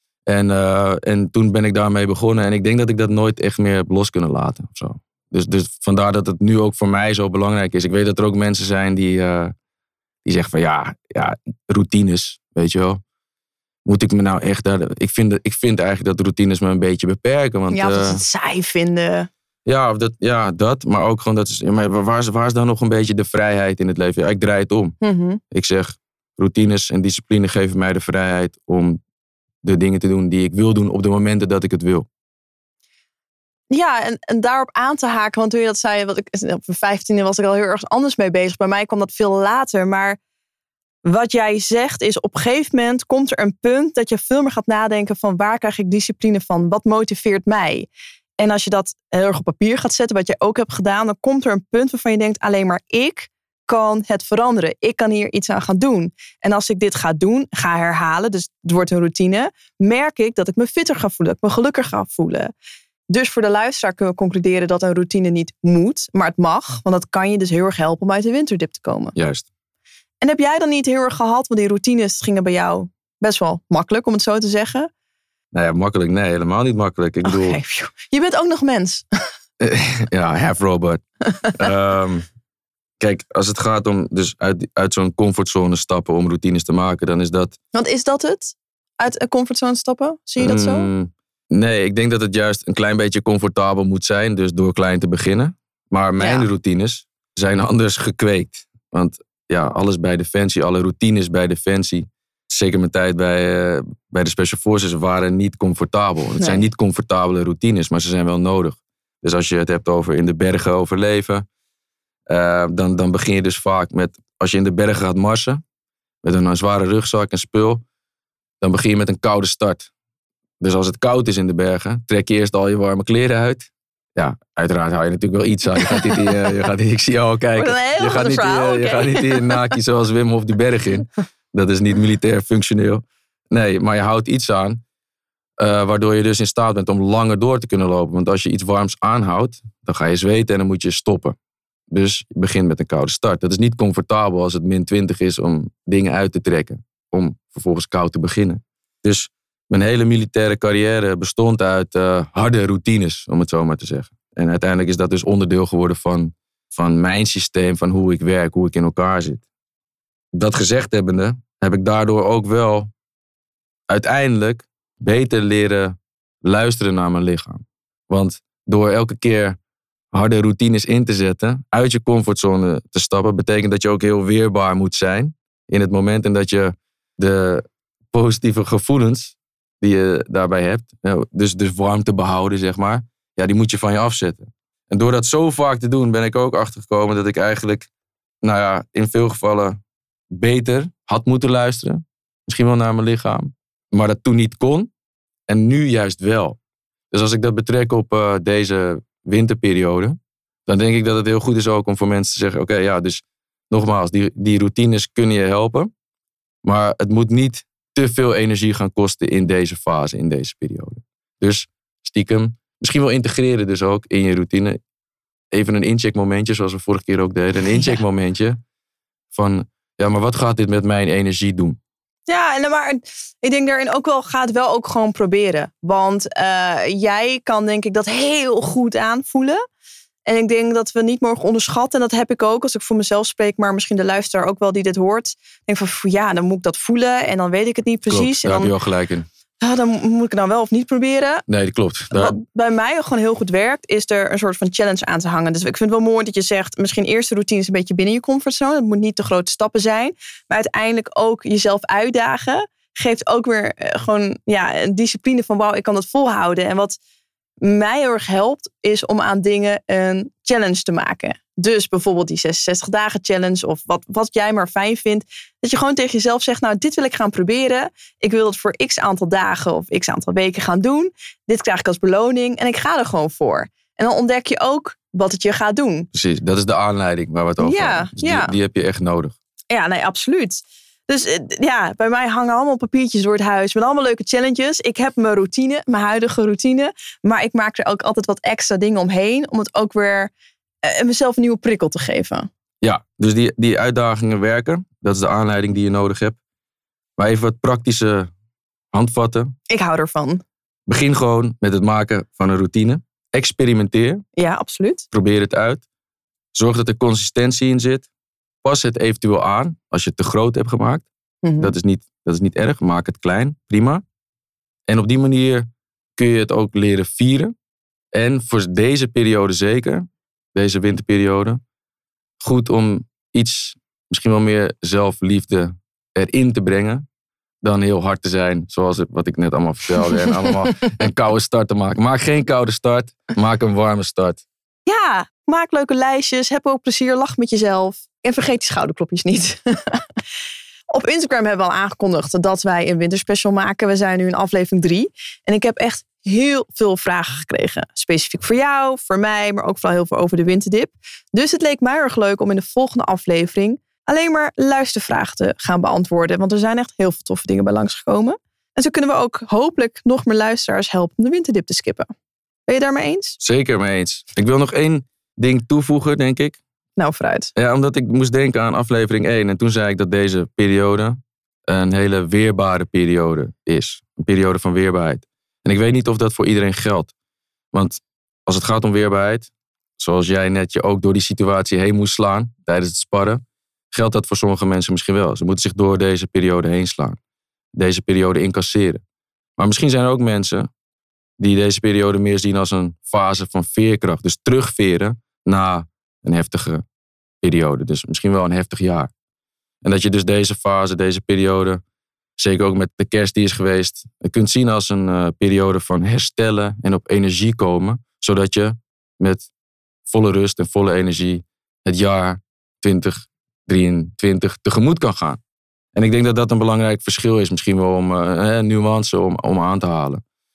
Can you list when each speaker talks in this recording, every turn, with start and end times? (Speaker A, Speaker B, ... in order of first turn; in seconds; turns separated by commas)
Speaker A: 0.3-9.5, Speaker A: 10.2-13.0, Speaker A: 13.9-18.2, Speaker B: 17.7-19.3, Speaker A: 19.7-25.0, Speaker B: 25.0-25.4, Speaker A: 25.5-29.0, Speaker A: 29.6-32.1, Speaker B: 33.7-40.2, Speaker B: 41.0-47.9, Speaker B: 48.4-62.5, Speaker B: 63.1-69.2, Speaker A: 69.2-69.4, Speaker B: 70.2-74.9, Speaker A: 75.5-77.6, Speaker B: 77.2-79.0, Speaker A: 79.6-82.3, Speaker A: 83.0-87.6, Speaker B: 87.7-90.9, Speaker A: 90.4-111.5, Speaker B: 96.2-96.5, Speaker B: 106.4-106.7, Speaker A: 112.3-115.6, Speaker A: 116.2-117.8, Speaker A: 118.6-119.9, Speaker A: 120.6-134.8, Speaker B: 125.8-126.2, Speaker B: 127.5-129.8, Speaker A: 135.6-141.4, Speaker A: 141.9-159.4, Speaker A: 160.3-162.9, Speaker A: 163.9-169.6, Speaker A: 170.1-187.9, Speaker A: 188.4-189.8, Speaker A: 190.3-194.9, Speaker A: 195.5-196.6, Speaker A: 197.1-205.9, Speaker A: 206.6-214.8, Speaker A: 215.5-218.6, Speaker B: 217.7-218.0, Speaker A: 219.3-221.8, Speaker B: 222.3-229.6, Speaker B: 230.3-238.7, Speaker A: 238.1-239.3, Speaker B: 239.6-241.4, Speaker A: 241.5-242.4, Speaker B: 242.1-257.0, Speaker B: 257.6-276.1, Speaker A: 276.1-279.4, Speaker B: 277.6-278.5, Speaker B: 279.7-290.3, Speaker B: 290.8-292.5, Speaker A: 292.8-296.4, Speaker A: 297.2-298.3, Speaker A: 298.9-299.5, Speaker B: 299.7-300.4, Speaker A: 300.9-304.2, Speaker B: 304.4-305.1, Speaker A: 305.1-305.8, Speaker A: 306.5-308.1, Speaker A: 308.6-311.1, Speaker B: 311.4-311.7, Speaker A: 311.6-314.0, Speaker A: 314.9-317.5, Speaker A: 318.1-321.6, Speaker A: 322.4-327.1, Speaker A: 327.6-334.4, Speaker B: 334.9-340.1, Speaker B: 340.9-362.1, Speaker B: 362.7-363.4, Speaker A: 363.4-366.6, Speaker B: 367.0-367.5, Speaker A: 367.6-377.1, Speaker A: 377.7-387.2, Speaker A: 387.8-389.0, Speaker A: 389.6-390.7, Speaker A: 391.4-396.9, Speaker A: 397.4-399.1, Speaker A: 399.8-401.8, Speaker A: 402.4-409.5, Speaker A: 410.1-415.4, Speaker A: 415.9-420.2